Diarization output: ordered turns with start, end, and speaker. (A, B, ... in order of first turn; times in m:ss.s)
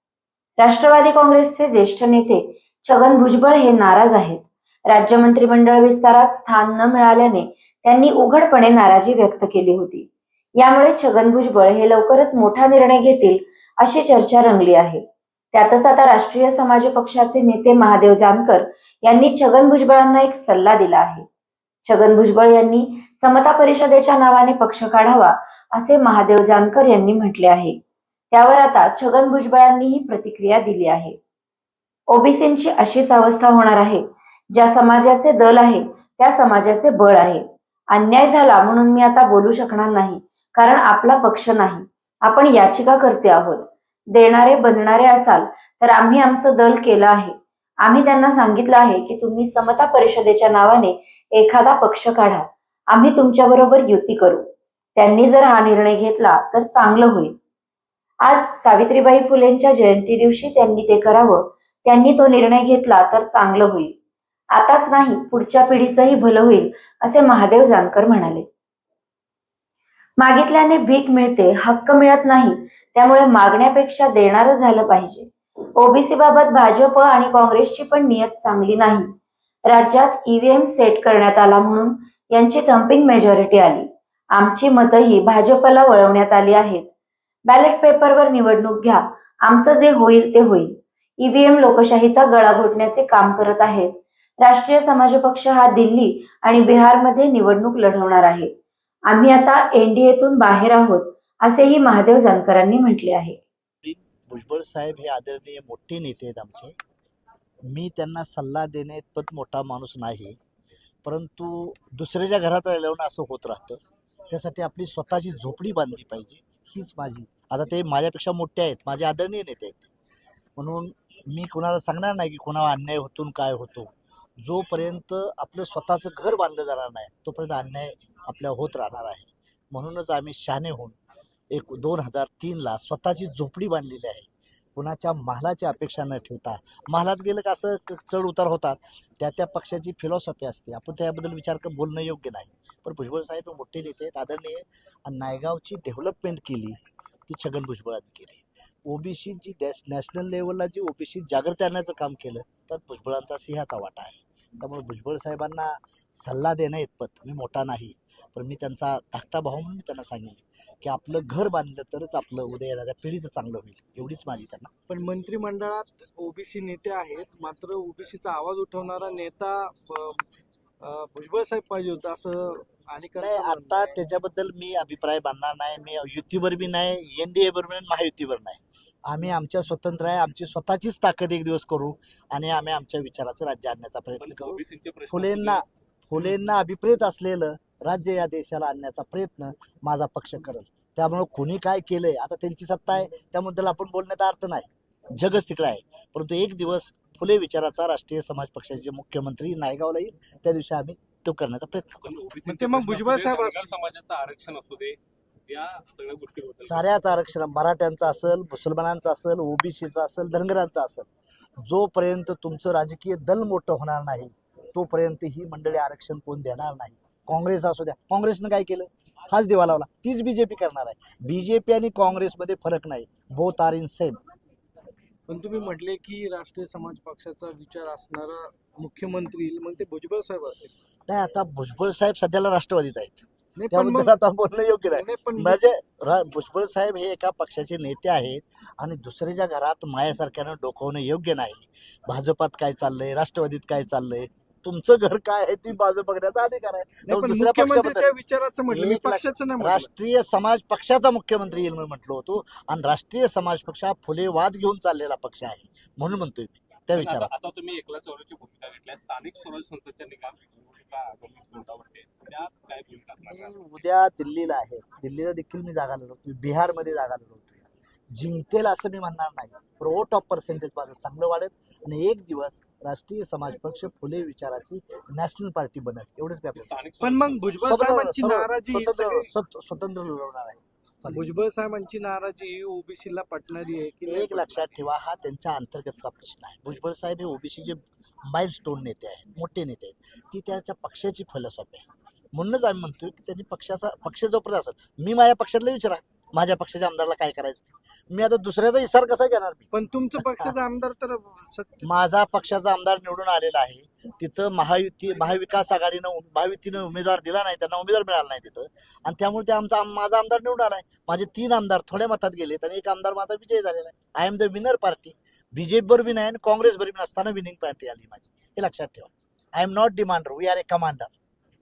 0:00.6-0:21.3 A
0:21.8-0:27.8 A
0:28.3-0:31.2 A
0:32.1-0:57.4 A
0:58.2-1:03.9 A
1:04.5-1:08.5 A
1:10.2-1:19.1 A
1:19.7-1:26.9 A
1:27.5-1:38.5 A
1:39.1-1:43.4 A
1:43.8-1:46.8 B
1:47.7-1:50.4 B
1:51.0-1:59.9 B
2:00.6-2:11.0 B
2:11.5-2:44.7 B
2:44.9-2:50.3 C
2:50.8-2:54.0 C
2:53.2-3:22.1 B
3:04.2-3:05.7 D
3:22.0-3:26.9 D
3:22.4-3:23.8 C
3:26.6-3:31.1 B
3:31.6-3:44.2 B
3:45.3-3:50.7 C
3:51.1-4:08.1 B
3:53.6-3:54.1 C
3:54.9-3:55.6 C
4:07.1-4:09.9 C
4:08.7-4:17.4 B
4:16.9-4:23.6 D
4:23.2-4:36.8 B
4:36.6-4:37.8 D
4:37.0-4:39.3 C
4:37.6-4:41.3 B
4:41.0-4:44.8 C
4:44.1-4:59.7 B
4:59.7-5:01.9 C
5:00.2-5:00.5 B
5:01.8-5:21.1 B